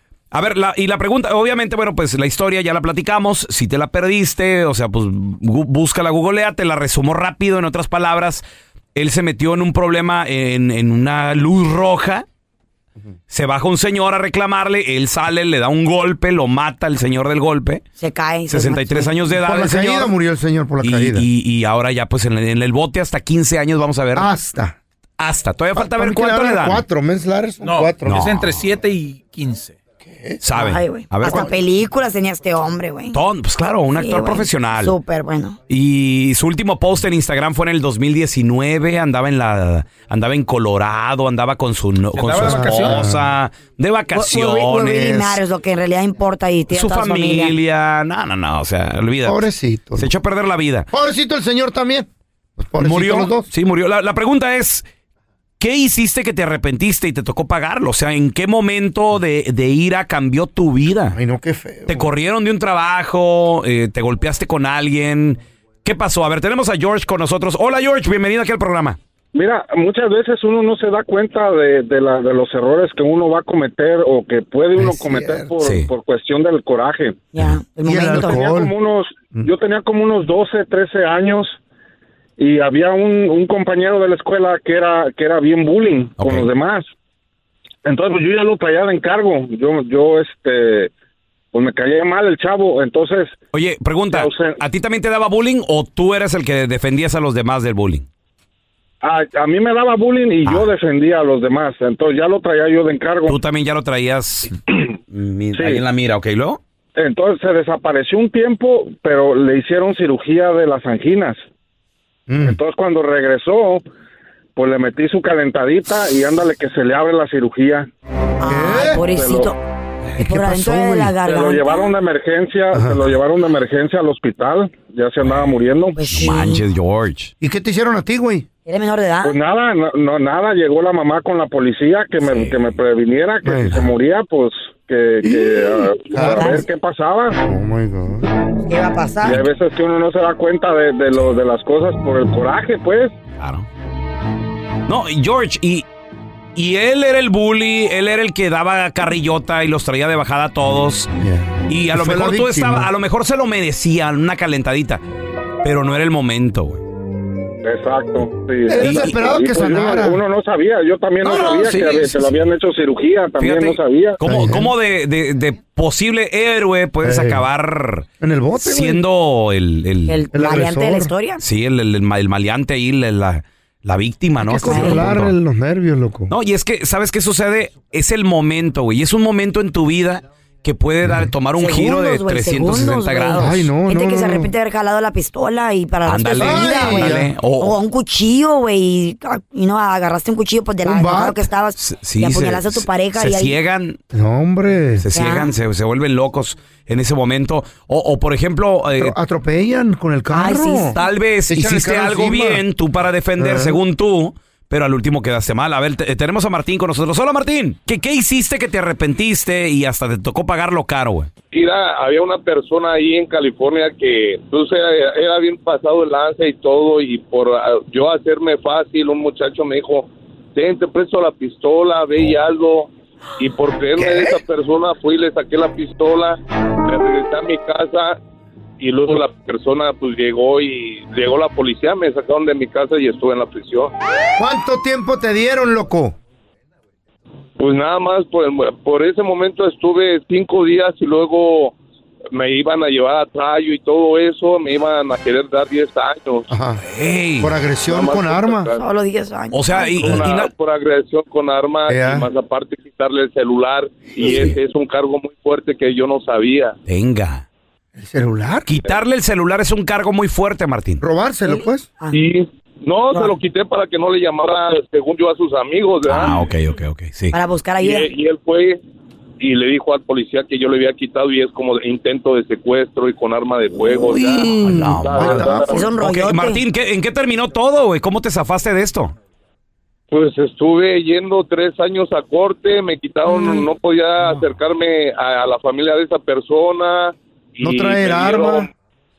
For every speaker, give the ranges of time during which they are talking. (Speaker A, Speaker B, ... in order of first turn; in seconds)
Speaker A: 0.3-8.4, 8.9-12.2, 13.3-17.8, 18.5-20.1, 20.8-24.3, 25.2-26.8, 28.0-28.7, 30.4-31.5, 33.1-35.0, 35.7-45.4, 46.7-50.9, 52.8-54.9, 55.6-61.2, 61.9-69.0, 75.6-75.9, 86.2-86.5, 93.5-98.1, 103.3-104.6, 105.1-106.6, 125.2-127.3, 132.2-132.7, 143.4-143.7, 144.9-145.8, 146.6-151.1, 151.7-155.0, 155.6-156.8, 158.8-159.2, 161.2-162.3, 163.4-168.1, 168.6-170.2, 171.4-175.3, 176.3-183.7, 186.1-187.8, 191.8-194.0, 195.0-199.2, 200.9-211.3, 246.8-247.5, 249.5-250.5, 256.9-257.4, 258.7-261.0, 266.1-267.4, 274.6-279.1
Speaker B: 18.0-19.2, 30.5-33.2, 34.0-35.6, 44.1-47.5, 77.3-78.5, 118.4-119.6, 120.2-121.9, 125.9-126.6, 128.7-129.4, 136.4-136.6, 138.6-139.4, 170.1-171.4, 174.5-175.1, 181.6-193.6, 195.1-195.5, 200.3-201.0, 248.7-250.1, 261.5-262.2, 263.1-263.4, 267.3-268.1, 275.6-276.6
Speaker C: 19.4-21.3, 24.1-24.8, 25.8-28.1, 30.1-30.4, 42.4-43.2, 49.2-50.1, 50.9-53.5, 61.1-62.1, 74.8-75.5, 77.8-78.8, 112.3-112.6, 118.4-119.0, 120.2-121.2, 122.7-123.1, 127.4-128.5, 133.4-133.8, 135.2-136.7, 137.4-138.3, 151.2-152.9, 158.7-160.2, 161.4-161.8, 164.2-164.7, 167.0-167.4, 168.2-169.0, 170.3-171.1, 174.4-176.3, 181.1-181.3, 183.4-184.5, 186.4-187.3, 190.8-191.5, 194.1-195.1, 199.0-201.0, 201.5-202.6, 203.4-203.8, 224.0-224.4, 234.4-236.2, 246.5-246.8, 247.4-248.7, 251.9-252.3, 258.0-258.8, 261.0-261.9, 273.7-275.8, 283.3-283.7, 287.6-288.7
Speaker D: 27.6-29.8, 42.1-43.1
Speaker E: 69.3-77.2, 78.1-81.6, 82.4-86.9, 87.8-90.9, 91.5-93.4, 94.1-94.6, 99.0-103.4, 105.5-105.8, 107.0-111.4, 112.4-113.8, 114.6-117.9, 119.0-119.5, 121.2-126.2, 129.2-137.4, 139.2-143.1, 157.6-164.2
Speaker F: 211.5-228.2, 228.8-233.9, 237.6-241.8, 242.3-246.5, 247.9-248.8, 250.0-256.8, 262.1-266.3, 267.8-268.8, 269.4-275.8, 280.1-288.7